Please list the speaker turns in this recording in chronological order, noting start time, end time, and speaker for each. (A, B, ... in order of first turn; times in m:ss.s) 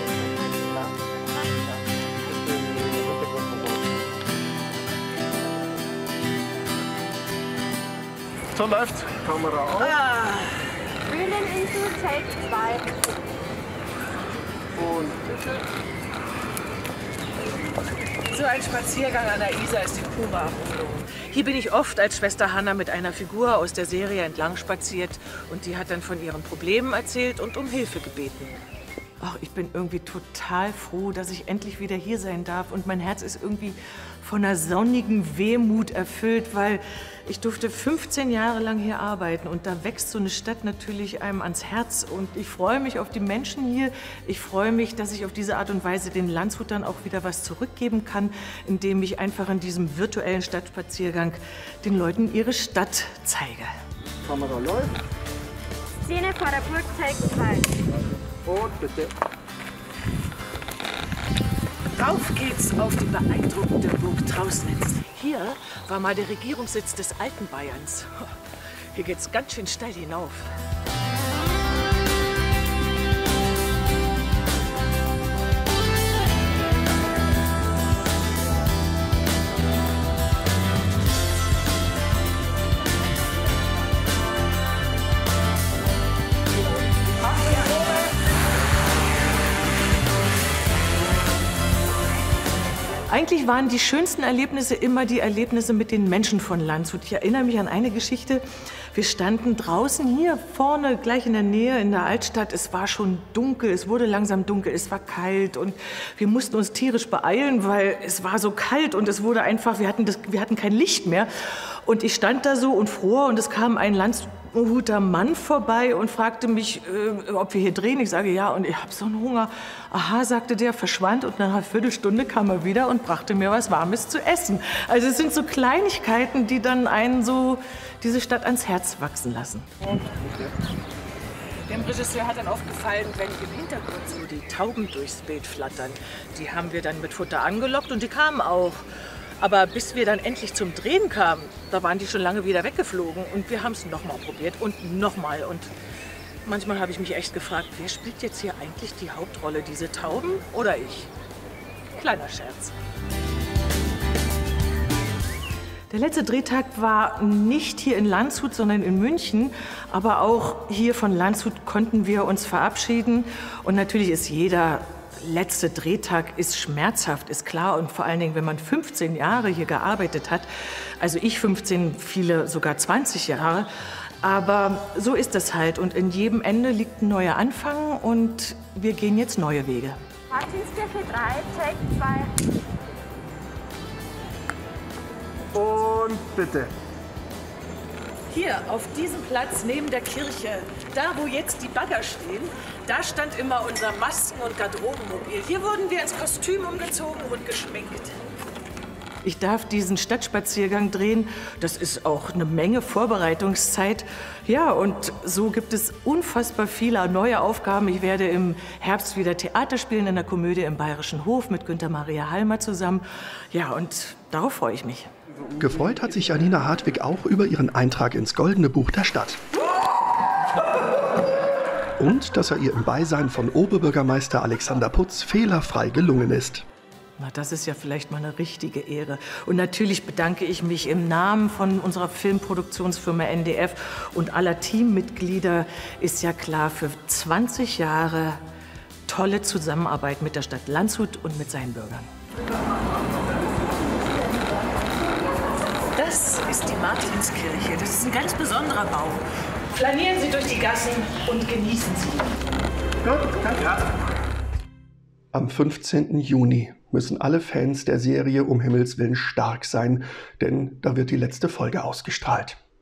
0:02.5-0:03.6 A
0:08.5-0:09.9 A
0:09.8-0:10.7 B
0:11.1-0:13.1 C
0:14.8-0:15.6 A
0:18.2-0:28.6 B
0:29.2-0:53.7 B
0:54.2-0:54.9 A
0:56.0-0:57.8 C
0:58.4-0:59.1 A
1:01.9-1:08.4 B
1:08.9-1:10.6 B
1:33.1-2:09.9 B
2:11.7-2:18.8 B
2:19.4-2:25.7 B
2:26.4-2:31.1 B
2:31.9-2:32.7 B
2:35.9-2:50.5 B
2:51.0-2:53.7 B
2:54.2-3:00.0 B
3:00.3-3:02.3 C
3:05.5-3:06.7 A
3:08.3-3:18.2 B
3:19.2-3:35.1 B
3:35.6-3:39.4 D
3:42.0-3:46.6 D
3:47.2-3:58.4 B
3:59.1-4:02.1 B
4:05.9-4:12.4 B
4:13.0-4:13.8 A
4:15.3-4:22.6 D